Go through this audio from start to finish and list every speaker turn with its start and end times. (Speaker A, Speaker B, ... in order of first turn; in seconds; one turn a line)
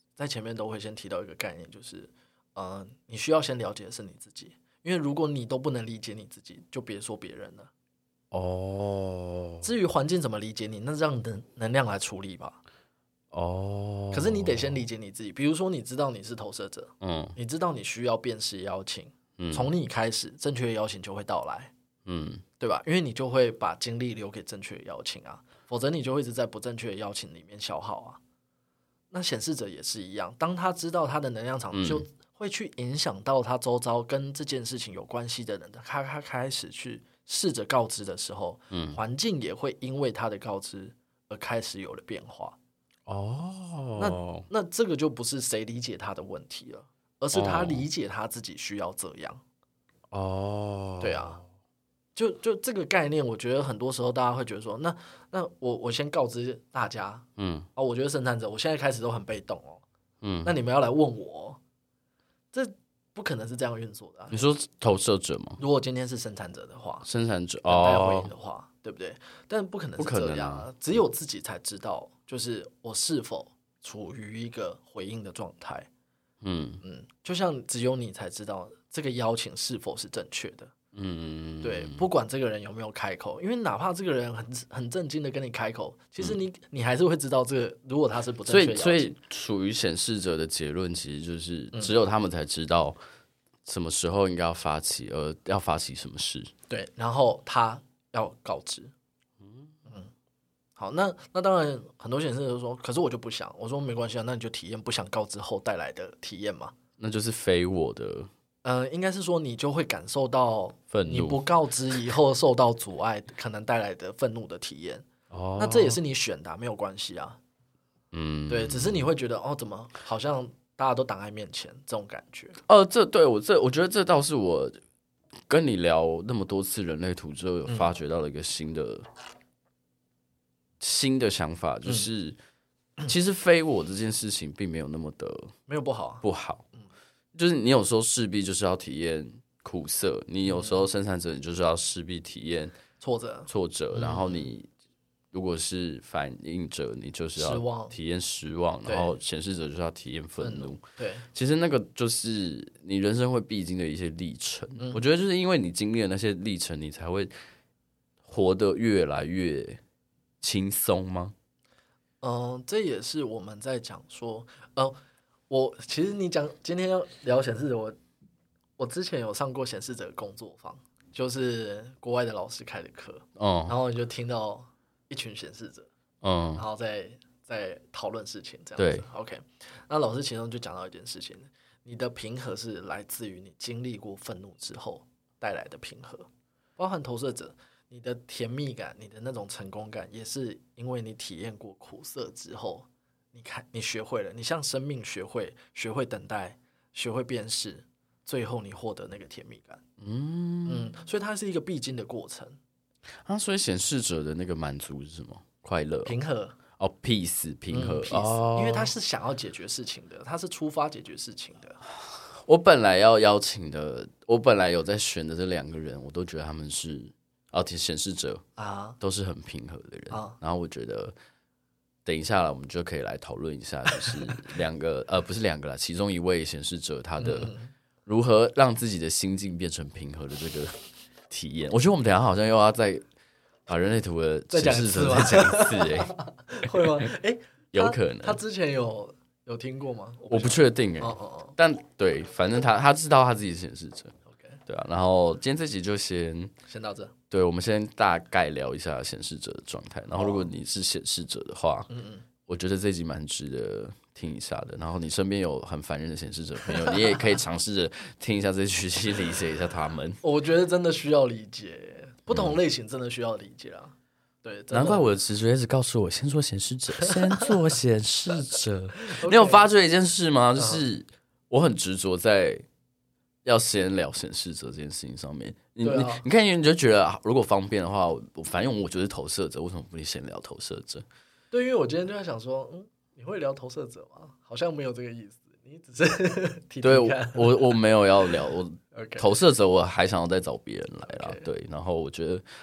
Speaker A: 0.2-7.7
Speaker B: 8.3-9.7
Speaker A: 9.6-12.6
Speaker B: 13.3-14.8
Speaker A: 14.1-21.7
Speaker B: 17.0-17.4
Speaker B: 19.4-19.7
Speaker B: 22.1-22.4
Speaker A: 22.6-28.2
Speaker A: 29.1-42.6
Speaker B: 31.7-32.0
Speaker B: 38.7-39.0
Speaker B: 43.1-44.5
Speaker A: 44.0-49.4
Speaker B: 47.3-47.9
Speaker B: 50.1-51.4
Speaker A: 51.0-51.4
Speaker A: 52.1-59.8
Speaker B: 57.4-57.7
Speaker B: 60.2-60.5
Speaker A: 60.4-61.6
Speaker A: 62.5-64.4
Speaker B: 64.3-65.6
Speaker A: 65.6-67.1
Speaker B: 67.0-68.3
Speaker A: 67.7-75.9
Speaker B: 70.0-70.7
Speaker B: 76.4-76.8
Speaker A: 76.8-80.7
Speaker B: 80.9-82.1
Speaker A: 81.6-89.1
Speaker B: 88.5-93.0
Speaker B: 93.6-96.5
Speaker A: 96.7-98.9
Speaker B: 99.4-99.7
Speaker A: 100.8-106.7
Speaker B: 107.0-108.3
Speaker A: 108.6-115.0
Speaker B: 110.9-111.4
Speaker B: 115.3-116.0
Speaker A: 115.6-117.4
Speaker B: 118.1-119.0
Speaker A: 118.5-122.6
Speaker B: 122.7-124.8
Speaker B: 125.5-129.1
Speaker A: 127.7-127.9
Speaker B: 130.8-132.4
Speaker B: 133.1-135.5
Speaker A: 135.7-136.2
Speaker B: 136.2-136.7
Speaker B: 137.3-142.8
Speaker A: 140.5-140.8
Speaker A: 143.0-144.5
Speaker B: 143.5-144.7
Speaker B: 145.3-150.8
Speaker A: 147.4-147.9
Speaker A: 148.9-149.2
Speaker A: 150.4-151.3
Speaker B: 151.3-157.3
Speaker B: 158.2-159.8
Speaker B: 160.4-161.3
Speaker A: 162.2-165.0
Speaker A: 165.5-168.0
Speaker A: 168.8-175.9
Speaker B: 173.4-173.8
Speaker B: 176.2-176.6
Speaker A: 176.6-186.3
Speaker B: 178.8-179.1
Speaker A: 186.8-199.8
Speaker B: 200.0-200.9
Speaker A: 200.7-202.6
Speaker B: 203.2-206.1
Speaker A: 206.1-206.6
Speaker B: 206.8-208.9
Speaker A: 207.7-211.8
Speaker B: 212.1-218.4
Speaker A: 218.6-219.0
Speaker B: 219.0-221.2
Speaker A: 220.1-220.4
Speaker B: 222.1-227.5
Speaker A: 227.2-227.7
Speaker B: 228.1-233.1
Speaker B: 233.7-236.2
Speaker A: 234.5-241.6
Speaker B: 237.7-238.4
Speaker B: 240.3-244.2
Speaker A: 244.3-244.6
Speaker B: 244.7-246.5
Speaker A: 246.7-247.1
Speaker B: 247.3-251.9
Speaker A: 250.2-250.5
Speaker A: 251.9-252.3
Speaker B: 252.5-260.2
Speaker A: 260.2-265.1
Speaker B: 262.3-262.6
Speaker B: 264.7-272.6
Speaker A: 269.0-269.7
Speaker A: 270.6-270.8
Speaker B: 273.4-281.0
Speaker A: 275.8-276.2
Speaker A: 281.5-287.8
Speaker B: 286.8-292.4
Speaker A: 288.9-289.3
Speaker A: 291.0-291.5